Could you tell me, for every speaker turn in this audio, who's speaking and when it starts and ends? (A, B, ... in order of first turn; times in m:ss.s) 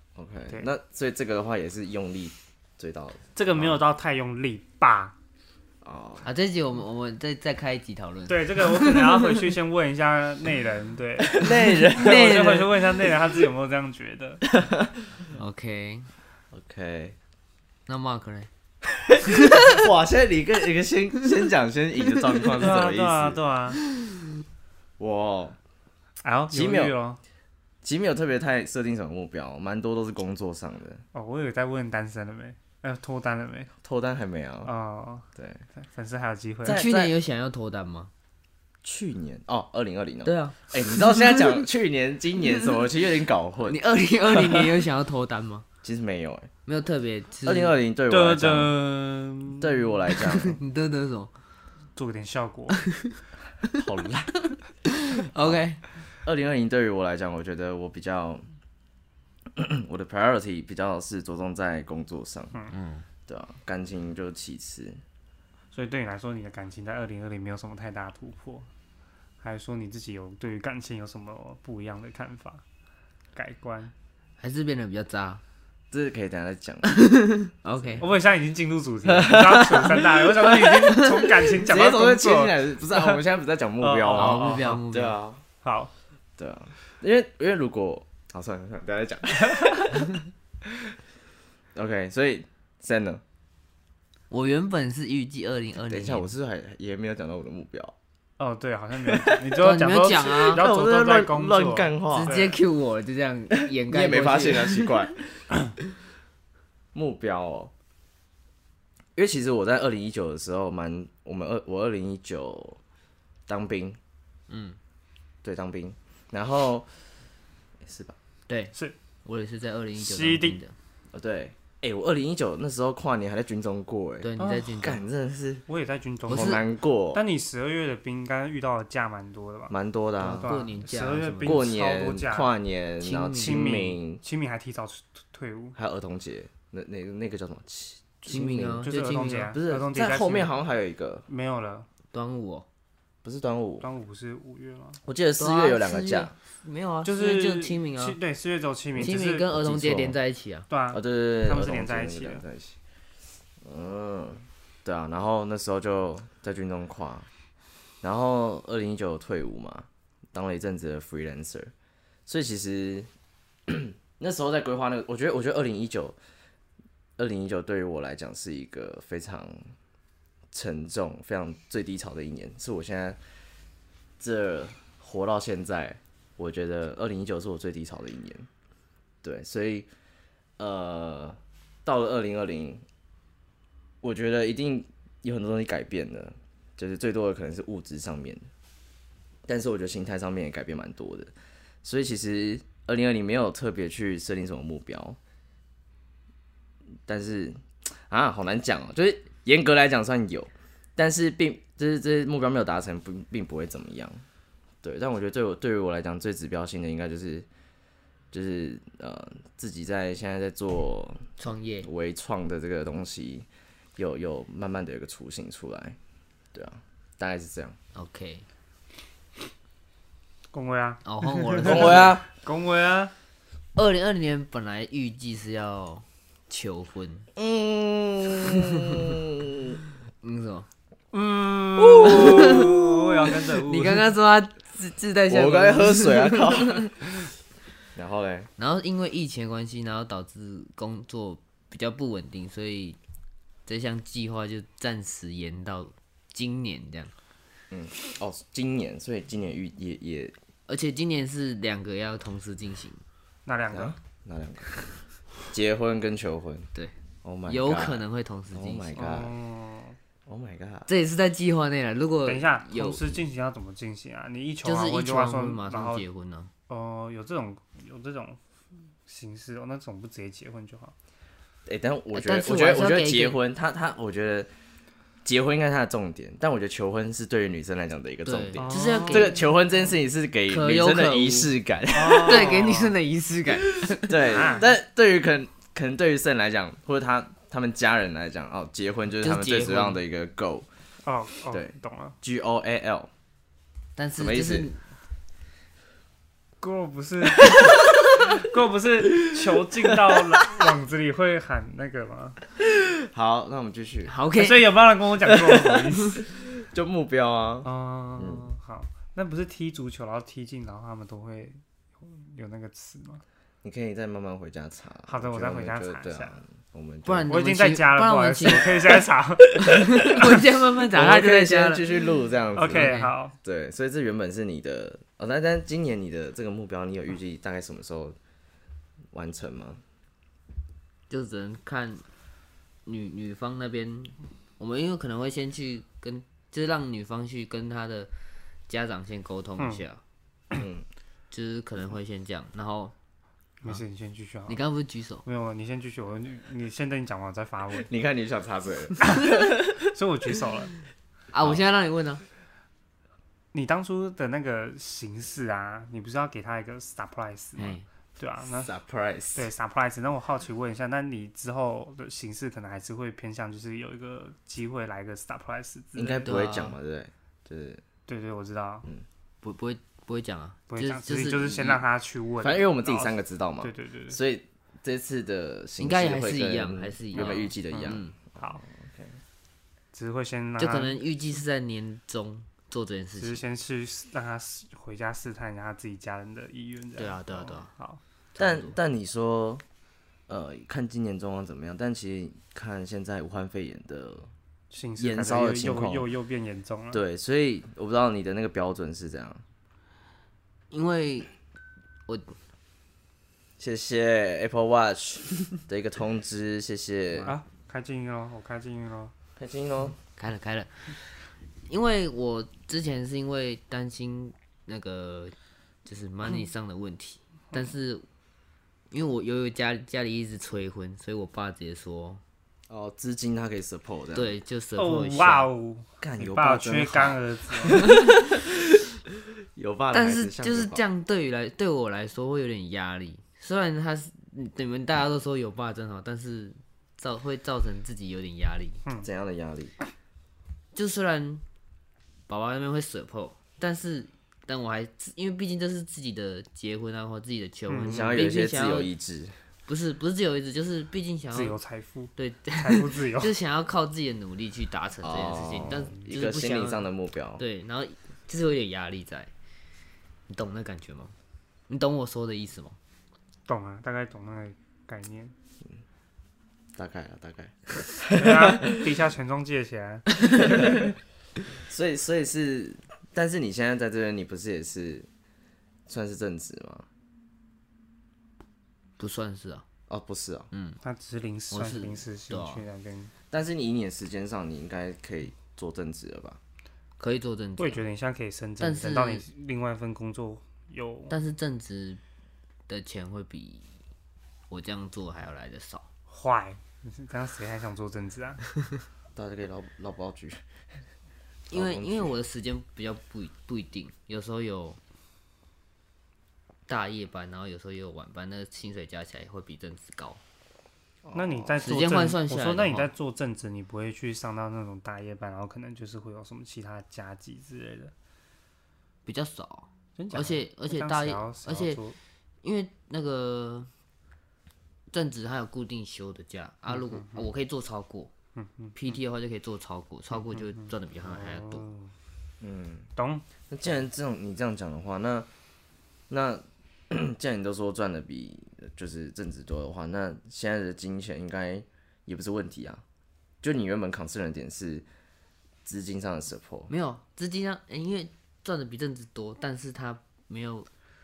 0:00.1-0:03.8 A
0:03.3-0:05.1 B
0:05.8-0:06.2 A
0:06.2-0:09.4 C
0:08.3-0:14.4 B
0:11.3-0:12.8 A
0:12.0-0:12.6 C
0:14.5-0:14.9 A
0:15.3-0:16.1 C
0:16.5-0:17.2 A
0:17.9-0:18.5 C
0:18.9-0:23.4 A
0:19.3-0:19.7 C
0:22.6-0:23.8 B
0:25.0-0:25.6 A
0:26.2-0:27.2 B
0:26.5-0:26.9 A
0:27.8-0:31.0 A
0:31.1-0:33.7 B
0:33.8-0:34.7 A
0:34.6-0:35.2 B
0:35.4-0:35.6 A
0:35.8-0:36.8 B
0:36.6-0:37.1 A
0:36.6-0:38.1 C
0:38.8-0:44.7 A
0:40.2-0:41.5 C
0:43.6-0:45.6 C
0:45.8-0:46.5 A
0:46.6-0:47.7 C
0:47.4-0:48.7 A
0:48.1-0:49.8 B
0:49.6-0:50.6 A
0:50.4-0:51.3 C
0:52.0-0:52.8 B
0:53.8-0:54.3 A
0:54.9-0:55.8 C
0:56.2-0:58.4 A
0:59.5-1:02.5 A
1:02.7-1:03.0 C
1:03.3-1:05.0 A
1:05.7-1:08.7 B
1:09.4-1:12.6 B
1:13.3-1:13.9 B
1:14.4-1:15.4 C
1:15.9-1:17.0 A
1:16.8-1:18.1 C
1:17.7-1:18.0 A
1:18.0-1:23.2 B
1:19.0-1:21.0 A
1:21.6-1:25.4 A
1:23.8-1:24.8 B
1:24.1-1:25.2 C
1:25.6-1:25.9 B
1:26.4-1:30.2 A
1:31.7-1:33.2 A
1:34.3-1:36.3 C
1:35.9-1:37.9 A
1:38.4-1:42.6 B
1:39.5-1:40.6 C
1:40.5-1:42.3 A
1:42.1-1:45.0 C
1:43.7-1:45.4 A
1:46.9-1:47.7 A
1:49.2-1:52.8 A
1:53.5-1:54.0 A
1:54.5-1:54.8 C
1:55.4-1:56.9 A
1:57.8-1:58.2 A
1:58.5-1:58.7 C
1:59.2-2:00.7 C
2:00.0-2:00.6 B
2:01.1-2:04.3 A
2:04.2-2:05.0 C
2:04.4-2:04.6 B
2:04.8-2:05.6 A
2:05.7-2:09.7 B
2:06.3-2:06.6 C
2:06.3-2:07.2 A
2:09.7-2:10.5 A
2:10.2-2:11.6 C
2:10.4-2:12.5 B
2:11.4-2:14.2 A
2:13.0-2:13.7 C
2:13.4-2:15.8 B
2:15.8-2:18.8 A
2:18.2-2:20.5 B
2:18.3-2:19.5 C
2:19.5-2:21.2 A
2:21.3-2:21.8 B
2:22.1-2:22.6 C
2:23.2-2:23.9 A
2:23.8-2:25.0 B
2:25.0-2:26.3 A
2:25.4-2:28.2 C
2:27.0-2:29.4 B
2:29.0-2:30.2 A
2:29.0-2:30.6 C
2:30.7-2:32.4 B
2:30.9-2:32.8 A
2:33.6-2:37.3 A
2:38.0-2:41.7 A
2:42.2-2:43.1 A
2:43.7-2:46.2 A
2:47.2-2:49.7 A
2:50.5-2:53.2 A
2:54.2-2:58.5 A
2:59.2-2:59.9 A
3:00.6-3:02.8 A
3:04.0-3:08.5 A
3:09.5-3:11.3 A
3:11.8-3:15.2 A
3:17.0-3:24.2 A
3:24.8-3:27.5 A
3:28.3-3:31.3 A
3:31.4-3:31.9 C
3:31.8-3:36.0 A
3:36.5-3:37.8 A
3:37.9-3:38.4 C
3:40.5-3:43.1 B
3:41.0-3:42.1 C
3:41.6-3:42.2 A
3:43.8-3:47.3 C
3:47.4-3:49.8 A
3:48.4-3:49.0 C
3:50.2-3:56.9 C
3:51.8-3:52.8 A
3:51.9-3:54.1 B
3:55.3-3:56.9 A
3:57.9-3:58.5 A
3:58.6-4:03.0 C
4:03.6-4:07.1 C
4:07.7-4:10.3 A
4:10.7-4:13.0 C
4:13.4-4:14.0 B
4:13.7-4:14.7 A
4:15.5-4:16.7 A
4:17.2-4:19.3 A
4:17.5-4:19.0 C
4:18.9-4:20.0 B
4:20.3-4:20.9 A
4:20.9-4:23.2 C
4:22.2-4:26.0 B
4:24.6-4:26.5 C
4:26.7-4:28.4 B
4:29.1-4:30.9 B
4:31.6-4:34.5 A
4:32.1-4:33.4 C
4:35.2-4:42.8 A
4:38.2-4:39.4 C
4:38.6-4:39.5 B
4:40.5-4:44.2 C
4:41.9-4:43.0 B
4:43.8-4:50.7 A
4:44.2-4:44.7 B
4:49.2-4:50.0 C
4:51.0-4:52.1 B
4:52.2-4:53.1 A
4:54.0-4:54.8 C
4:54.2-4:54.7 A
4:56.6-5:02.4 B
5:02.9-5:04.1 A
5:04.0-5:04.8 C
5:04.4-5:06.2 B
5:06.3-5:08.5 A
5:07.6-5:13.2 B
5:13.6-5:17.3 A
5:15.1-5:16.4 B
5:17.0-5:18.7 C
5:17.3-5:20.3 B
5:19.6-5:21.8 C
5:20.9-5:28.2 A
5:22.6-5:23.3 B
5:22.7-5:23.1 C
5:29.1-5:29.8 A
5:31.1-5:32.0 C
5:32.8-5:38.1 C
5:38.7-5:40.0 C
5:40.5-5:40.8 A
5:41.3-5:42.9 C
5:43.6-5:44.6 B
5:44.5-5:45.2 C
5:45.2-5:47.9 B
5:47.9-5:49.7 A
5:49.0-5:50.7 B
5:51.3-5:52.2 C
5:53.5-5:58.7 B
5:57.6-5:57.8 C
5:58.6-5:59.5 A
5:59.3-6:06.3 B
6:05.9-6:07.8 A
6:06.2-6:06.7 C
6:08.1-6:08.8 B
6:09.4-6:11.8 C
6:10.7-6:14.2 B
6:12.4-6:19.2 A
6:15.8-6:18.1 C
6:17.1-6:18.6 B
6:19.9-6:21.0 B
6:20.6-6:23.4 C
6:23.2-6:28.0 B
6:27.0-6:27.7 C
6:28.4-6:28.7 C
6:28.4-6:29.6 A
6:30.3-6:34.3 A
6:34.7-6:37.0 B
6:35.0-6:36.1 A
6:36.9-6:39.4 A
6:40.7-6:41.3 C
6:42.1-6:42.3 C
6:43.6-6:47.3 A
6:47.2-6:49.1 B
6:49.4-6:50.0 A
6:50.2-6:58.0 C
6:58.9-7:02.2 C
7:02.7-7:04.3 A
7:04.1-7:05.5 C
7:04.8-7:08.0 B
7:06.0-7:07.2 A
7:09.5-7:10.8 A
7:09.9-7:18.8 C
7:19.0-7:19.7 A
7:20.7-7:21.4 C
7:22.3-7:28.9 C
7:27.7-7:28.1 B
7:27.8-7:29.3 A
7:29.7-7:31.6 C
7:31.3-7:33.3 B
7:32.2-7:36.8 C
7:35.0-7:37.4 A
7:37.4-7:39.3 C
7:40.3-7:41.1 C
7:41.7-7:42.8 C
7:43.5-7:45.3 B
7:46.8-7:48.9 A
7:48.1-7:50.8 B
7:50.4-7:50.9 A
7:51.7-7:55.1 A
7:55.9-7:56.9 A
7:59.0-7:59.6 C
7:59.9-8:00.5 A
8:00.5-8:00.8 C
8:00.8-8:03.1 B
8:01.5-8:02.6 C
8:03.3-8:06.4 A
8:07.0-8:07.8 C
8:07.6-8:11.2 B
8:08.6-8:09.2 C
8:11.1-8:12.0 C
8:12.7-8:13.7 C
8:14.5-8:15.8 C
8:16.1-8:18.4 B
8:19.2-8:20.4 A
8:21.5-8:22.2 A
8:21.5-8:24.8 C
8:26.7-8:30.2 C
8:31.0-8:31.6 A
8:31.1-8:37.9 B
8:31.6-8:32.9 C
8:39.0-8:41.8 C
8:40.0-8:42.0 B
8:42.4-8:43.7 C
8:44.9-8:48.1 C
8:46.7-8:47.3 B
8:48.4-8:49.0 B
8:48.7-8:51.6 C
8:50.1-8:51.9 B
8:52.4-8:52.9 A
8:53.0-8:53.2 B
8:53.5-8:55.3 A
8:56.1-9:02.8 A
9:03.4-9:04.8 A
9:05.6-9:06.7 A
9:06.7-9:10.7 C